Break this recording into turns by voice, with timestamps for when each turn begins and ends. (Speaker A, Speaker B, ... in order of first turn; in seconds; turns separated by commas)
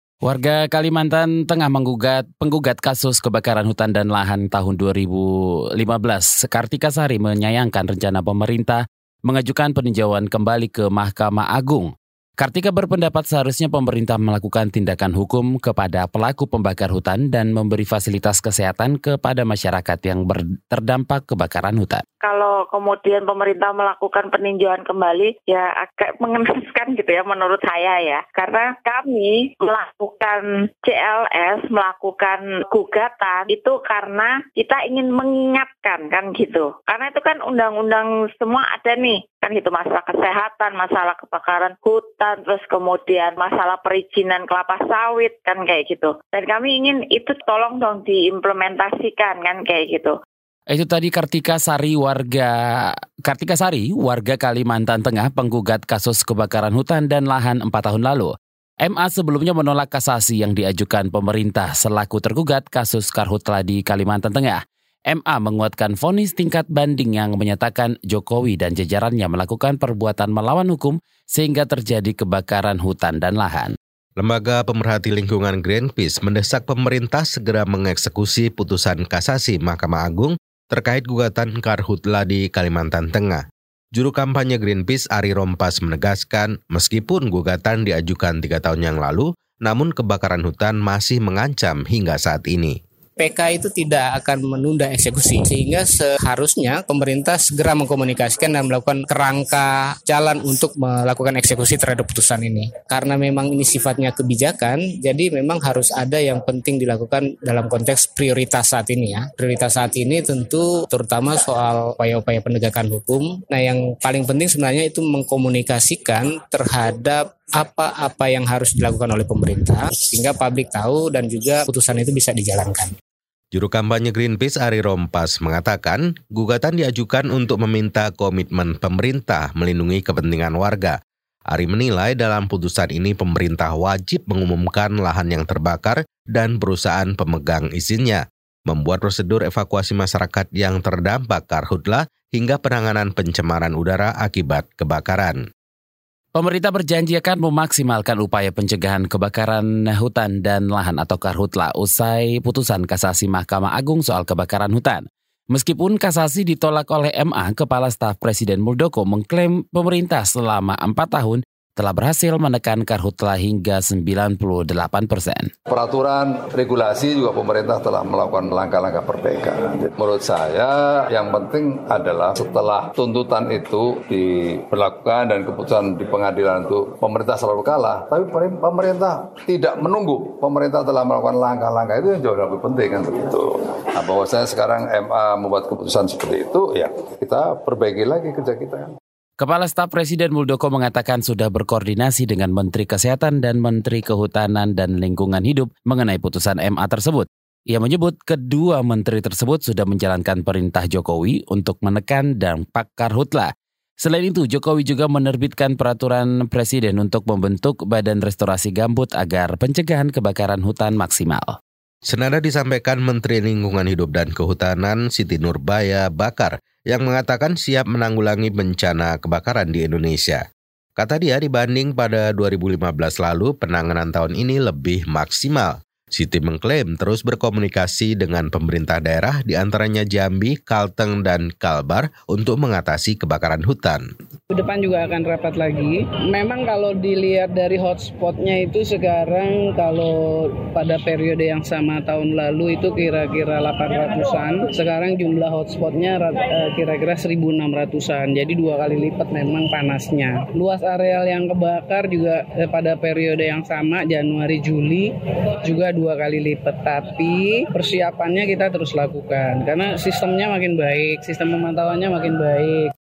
Speaker A: 0.2-22.0, Speaker B: 22.2-50.2, Speaker A: 50.7-73.7, Speaker C: 74.2-83.4, Speaker C: 83.9-92.8, Speaker D: 93.2-122.9, Speaker C: 123.5-130.9, Speaker C: 131.5-145.4, Speaker A: 146.3-165.5, Speaker E: 165.7-188.9, Speaker A: 189.4-203.5, Speaker A: 204.0-211.6, Speaker C: 212.1-220.4, Speaker C: 221.0-234.0, Speaker F: 234.5-255.1, Speaker F: 255.6-262.9